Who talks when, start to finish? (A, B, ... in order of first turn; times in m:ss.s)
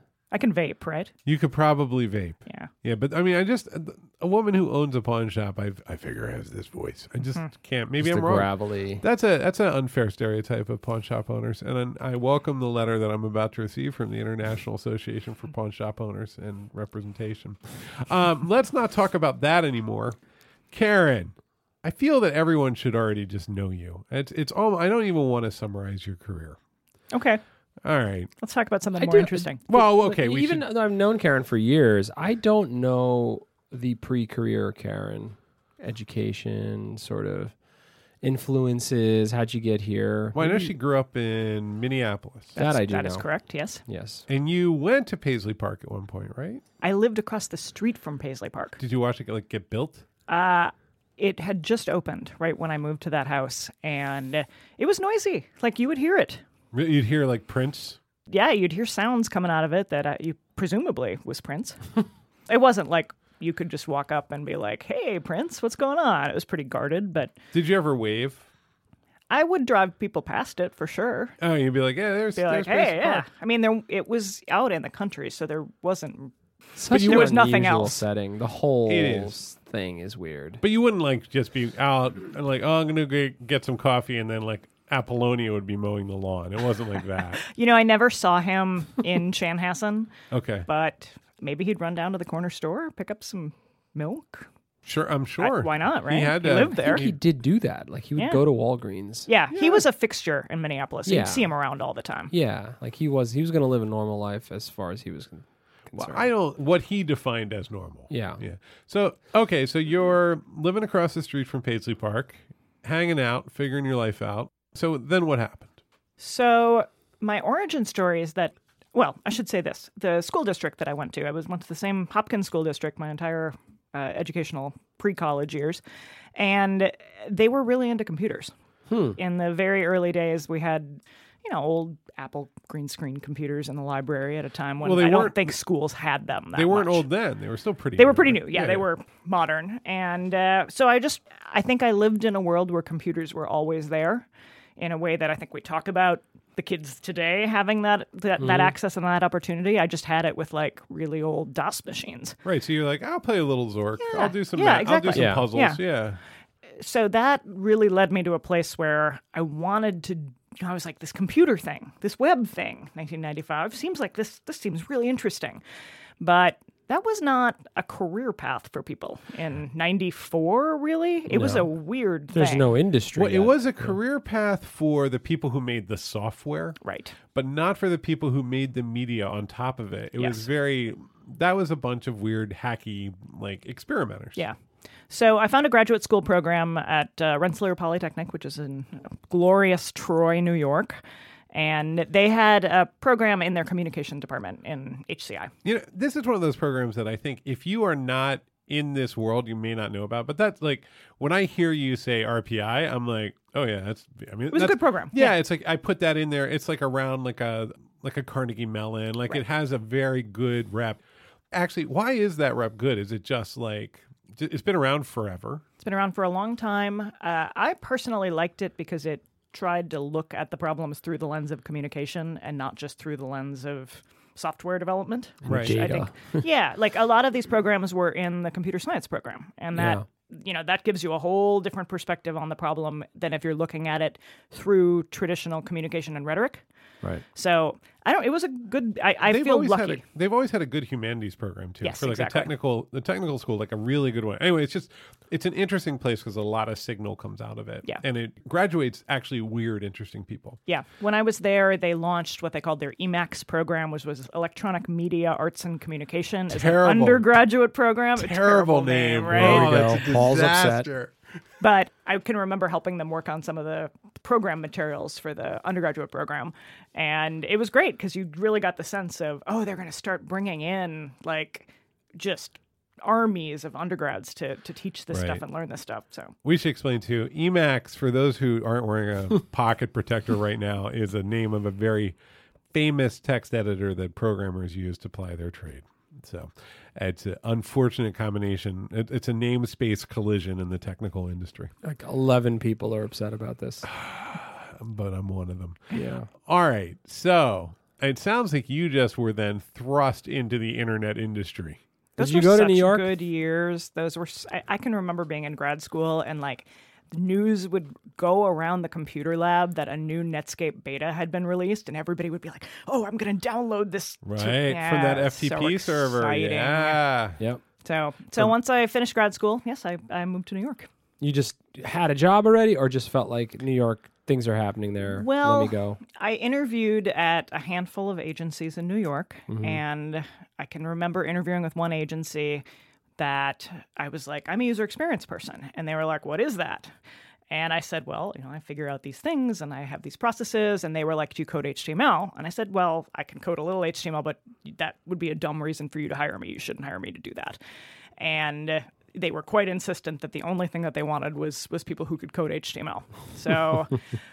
0:00.3-0:01.1 A
0:01.3-0:20.2 B
0:08.0-0:09.0 C
0:20.7-0:26.6 B
0:27.1-0:27.4 A
0:27.8-0:28.3 B
0:28.4-0:29.6 A
0:29.0-0:37.6 C
0:29.7-0:30.6 B
0:38.2-0:40.7 C
0:40.4-0:42.6 B
0:42.6-0:43.8 A
0:42.6-0:43.3 C
0:43.8-0:44.2 C
0:44.3-0:46.6 B
0:46.8-0:48.8 A
0:48.8-0:50.0 B
0:50.3-0:56.4 A
0:56.7-0:58.0 B
0:58.3-1:01.9 A
1:02.5-1:07.4 A
1:07.5-1:08.4 B
1:09.3-1:11.4 A
1:11.4-1:13.3 B
1:12.4-1:16.3 A
1:16.8-1:20.6 C
1:16.9-1:18.0 A
1:16.9-1:17.4 B
1:18.9-1:19.4 B
1:20.6-1:27.4 B
1:27.4-1:30.1 A
1:30.3-1:30.7 B
1:30.7-1:34.5 A
1:34.8-1:37.2 B
1:35.4-1:37.1 A
1:36.8-1:39.3 C
1:38.2-1:38.4 A
1:39.3-1:42.3 A
1:41.1-1:41.5 C
1:42.3-1:46.3 C
1:46.0-1:55.7 B
1:48.1-1:48.4 C
1:56.2-2:05.8 A
2:06.4-2:08.5 A
2:08.9-2:09.2 C
2:09.2-2:17.0 A
2:14.8-2:15.6 B
2:16.5-2:18.9 B
2:18.0-2:32.4 A
2:28.4-2:28.7 C
2:32.4-2:36.2 B
2:34.0-2:35.8 A
2:35.1-2:35.5 C
2:36.8-2:45.6 A
2:46.2-2:52.7 A
2:51.3-2:51.7 C
2:52.3-2:54.0 C
2:53.1-2:56.8 B
2:56.8-2:57.2 A
2:57.3-3:04.4 B
3:00.2-3:00.5 A
3:05.1-3:11.0 A
3:11.5-3:15.5 A
3:15.6-3:31.0 B
3:24.5-3:25.4 A
3:31.5-3:35.6 B
3:35.8-3:56.6 A
3:45.4-3:46.4 C
3:45.4-3:45.8 B
3:49.7-3:50.0 C
3:57.3-4:00.0 A
3:59.3-4:10.6 B
4:01.8-4:02.5 A
4:10.7-4:20.0 A
4:16.5-4:17.3 B
4:18.2-4:21.1 B
4:19.3-4:20.9 C
4:21.6-4:36.3 A
4:35.1-4:35.4 B
4:36.4-4:42.2 B
4:42.7-4:51.7 B
4:51.8-4:53.8 C
4:53.8-4:55.9 B
4:55.9-4:56.3 C
4:56.5-5:01.8 B
5:02.2-5:17.0 A
5:02.2-5:03.1 C
5:14.2-5:17.4 B
5:17.8-5:20.9 A
5:21.2-5:26.0 C
5:25.2-5:32.6 A
5:29.5-5:29.8 C
5:33.2-5:36.9 A
5:37.5-5:47.6 A
5:48.2-5:54.0 A